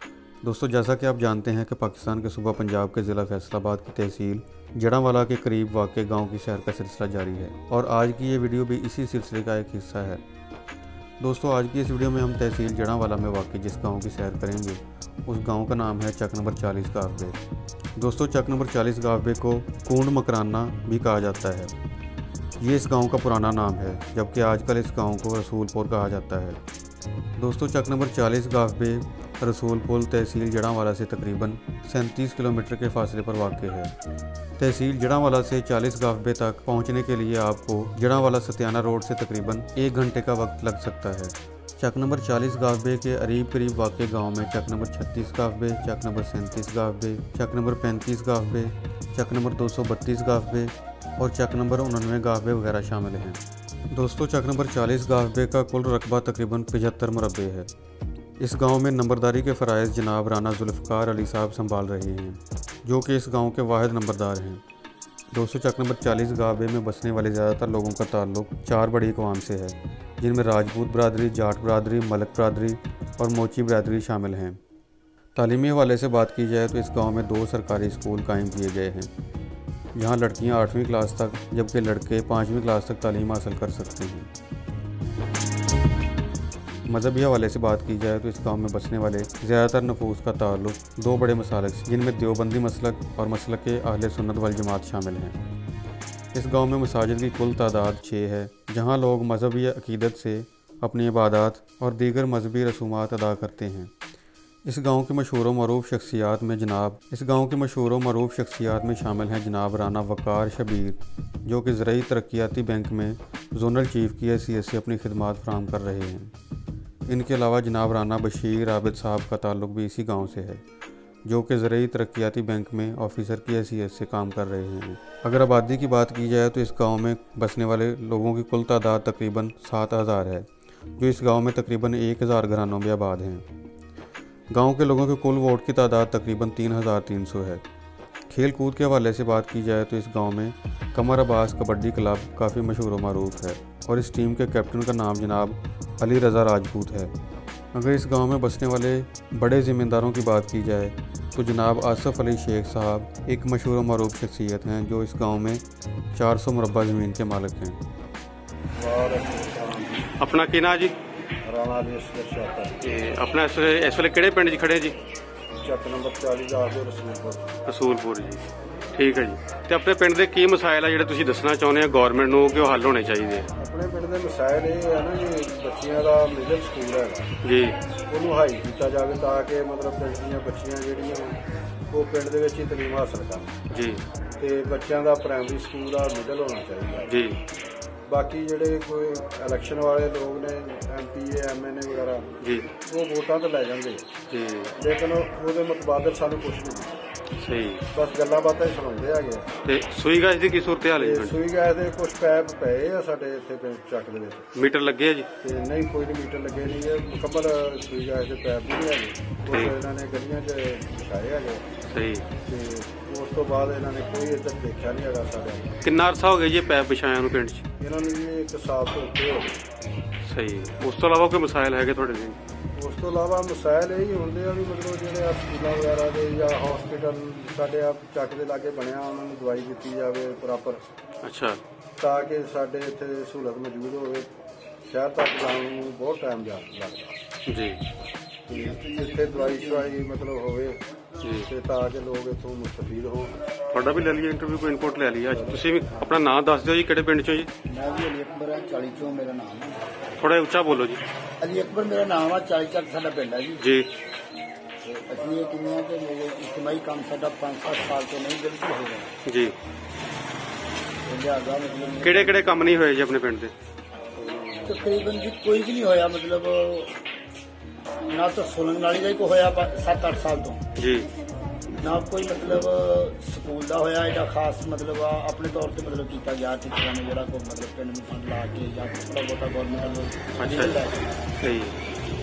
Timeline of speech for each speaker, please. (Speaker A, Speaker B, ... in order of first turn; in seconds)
Speaker A: 0.4-10.2, 11.2-17.4, 17.9-21.7, 22.6-26.6, 27.4-34.0, 34.6-57.7, 58.4-64.6, 65.3-74.6, 75.3-79.1, 79.9-84.3, 86.9-95.4, 96.3-103.9, 104.6-116.3, 117.1-120.6, 121.2-133.5, 134.5-137.6, 138.3-147.1, 147.7-155.6, 156.1-157.8
Speaker B: 158.8-160.1, 161.4-162.7, 165.6-167.6, 173.6-177.3, 178.1-181.4, 181.9-183.5, 184.4-187.2, 188.1-194.1, 194.8-197.0, 197.9-199.5, 200.9-204.5, 205.4-211.7, 212.4-215.8, 217.8-219.6, 222.7-230.8, 232.0-234.3, 234.8-237.2, 238.5-240.8, 241.4-243.4, 245.3-245.6, 264.2-264.6
Speaker C: 160.2-160.9, 162.8-164.9, 167.7-173.5, 177.4-177.8, 183.7-184.0, 187.1-187.4, 192.4-192.7, 194.3-194.7, 197.4-197.8, 199.6-201.4, 204.5-205.3, 209.5-209.7, 211.9-212.2, 215.8-217.6, 220.2-222.4, 231.2-231.6, 237.5-237.8, 241.2-241.5, 243.7-247.5, 250.2-251.0, 253.6-253.9, 259.2-259.6, 262.0-263.5, 270.8-271.1, 280.4-280.8, 281.4-281.8
Speaker D: 238.5-239.9, 247.7-249.8, 251.4-253.7, 254.8-259.1, 261.0-262.5, 264.6-266.9, 268.1-270.6, 271.8-281.3